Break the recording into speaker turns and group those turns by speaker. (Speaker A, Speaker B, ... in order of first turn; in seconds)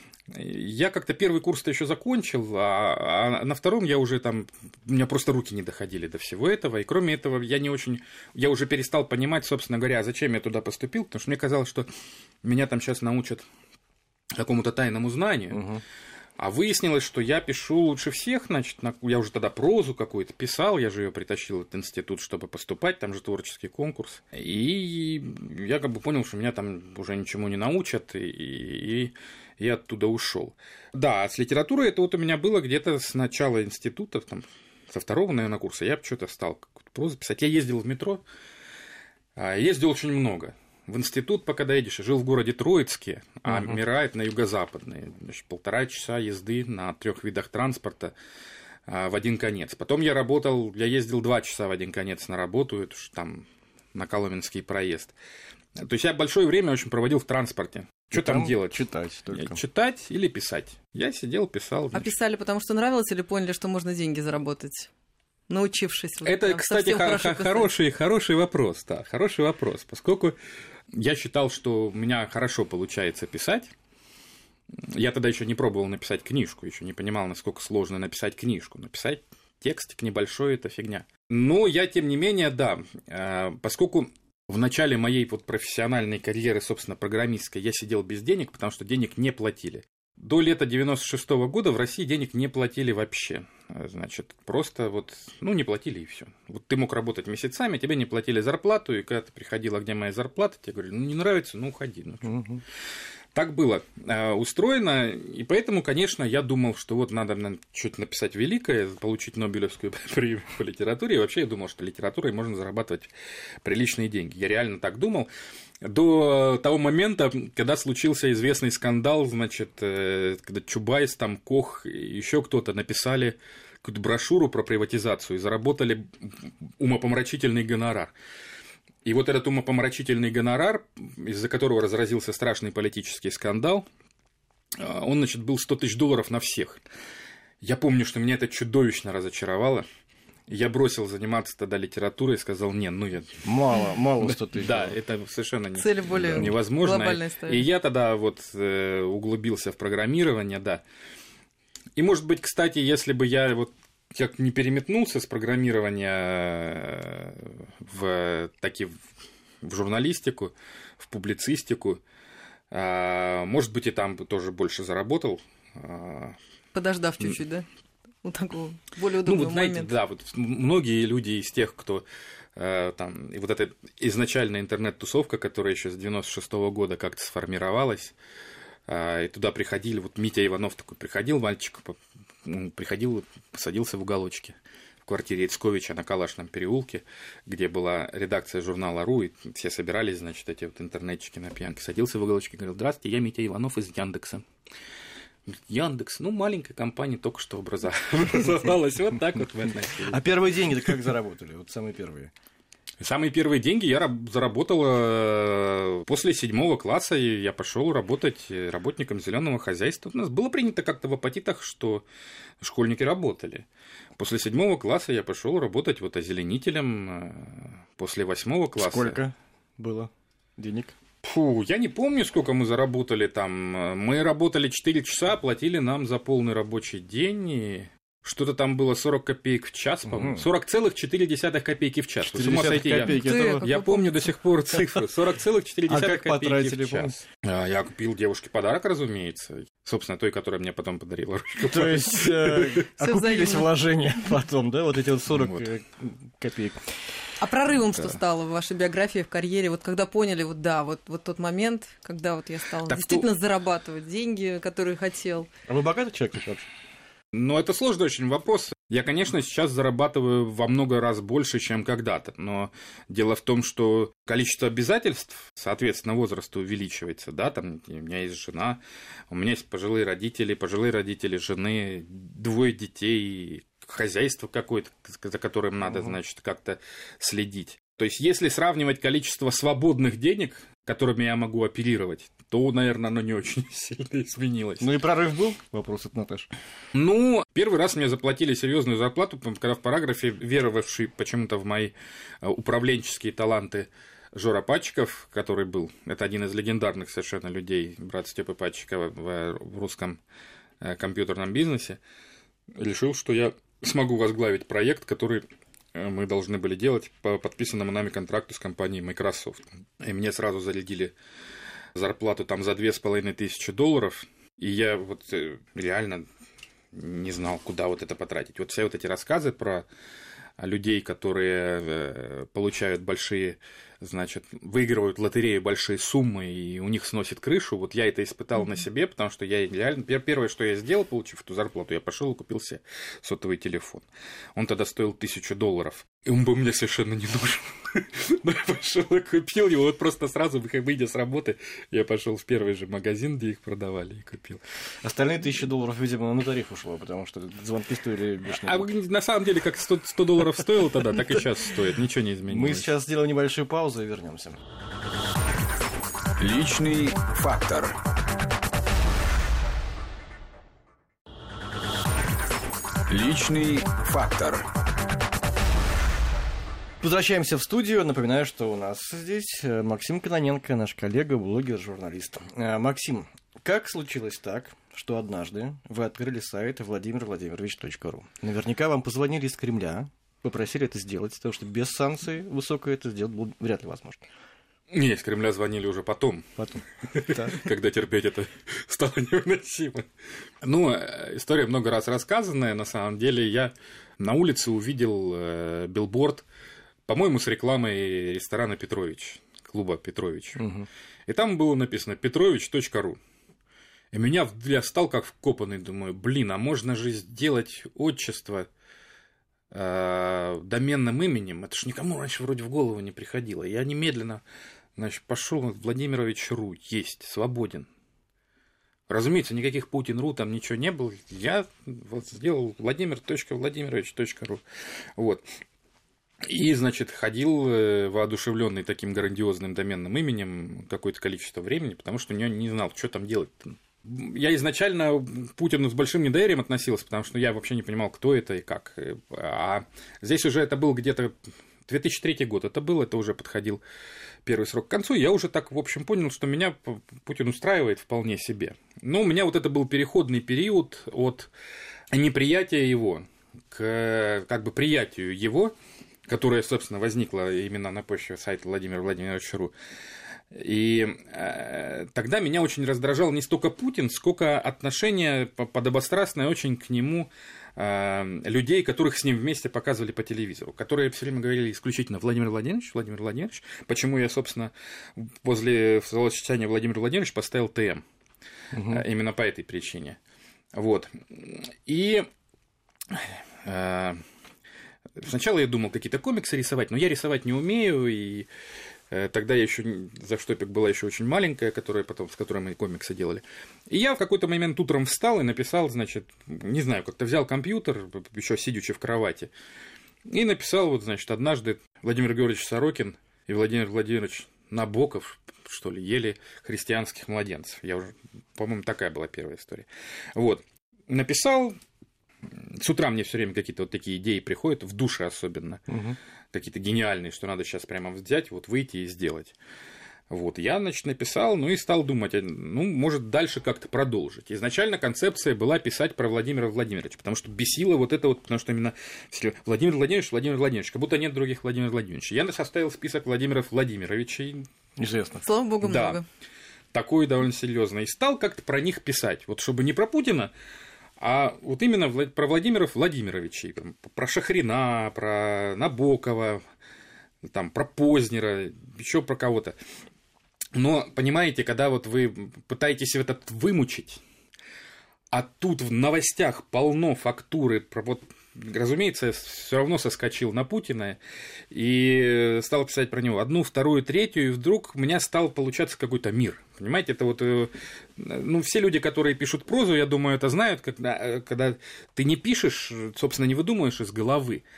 Speaker A: 0.3-11.9, 12.4-13.5, 14.3-15.7, 16.4-38.2, 39.4-48.1, 48.9-55.1, 55.8-62.1, 66.2-70.4, 70.9-73.7, 74.8-102.3, 103.3-113.1, 113.6-115.3, 115.8-128.1, 129.1-133.9, 134.7-136.8, 137.6-139.9, 140.5-143.4, 144.2-150.8, 152.0-158.9, 159.6-162.0, 162.7-166.4, 169.2-178.2, 178.9-194.4, 195.5-201.1, 203.0-212.1, 212.6-213.7, 214.2-219.2, 221.2-242.8, 245.3-245.7, 252.8-253.3, 257.3-284.9, 286.9-300.2, 300.8-302.0, 302.7-311.1, 311.9-316.3, 316.9-319.9, 320.6-344.6, 348.5-352.9, 384.9-386.6, 387.1-390.1, 390.6-396.4, 397.1-400.7, 401.3-403.2, 404.1-408.7, 409.7-414.4, 415.0-417.9, 419.1-424.6, 425.2-425.4, 426.4-441.4, 441.9-443.8, 444.4-451.5, 452.1-455.8, 456.3-459.7, 460.5-478.1, 478.8-480.2, 480.7-482.3, 483.1-484.2, 485.2-488.5, 489.1-499.5, 500.3-511.8, 512.5-515.9, 516.5-519.5, 520.3-534.7, 535.8-536.2, 536.9-540.5, 541.2-546.6, 547.4-549.8, 550.8-554.2, 555.3-561.2, 561.7-574.6
Speaker B: 15.5-15.8, 58.1-59.6, 102.2-102.6, 143.4-145.0, 146.1-146.5, 200.0-202.3, 218.8-220.9, 230.1-230.4, 232.2-233.7, 235.9-237.2, 241.6-246.9, 255.7-256.6, 284.8-286.5, 345.0-348.9, 352.5-354.6, 367.0-384.3, 386.6-387.7, 400.6-400.9, 478.7-479.0, 515.9-516.2, 535.0-535.4
Speaker C: 61.9-64.9, 65.5-67.7, 145.8-147.7, 166.7-167.7, 168.2-169.9, 233.0-234.3, 243.0-243.8, 247.4-255.5, 535.4-536.2
Speaker D: 356.4-358.0, 363.1-364.7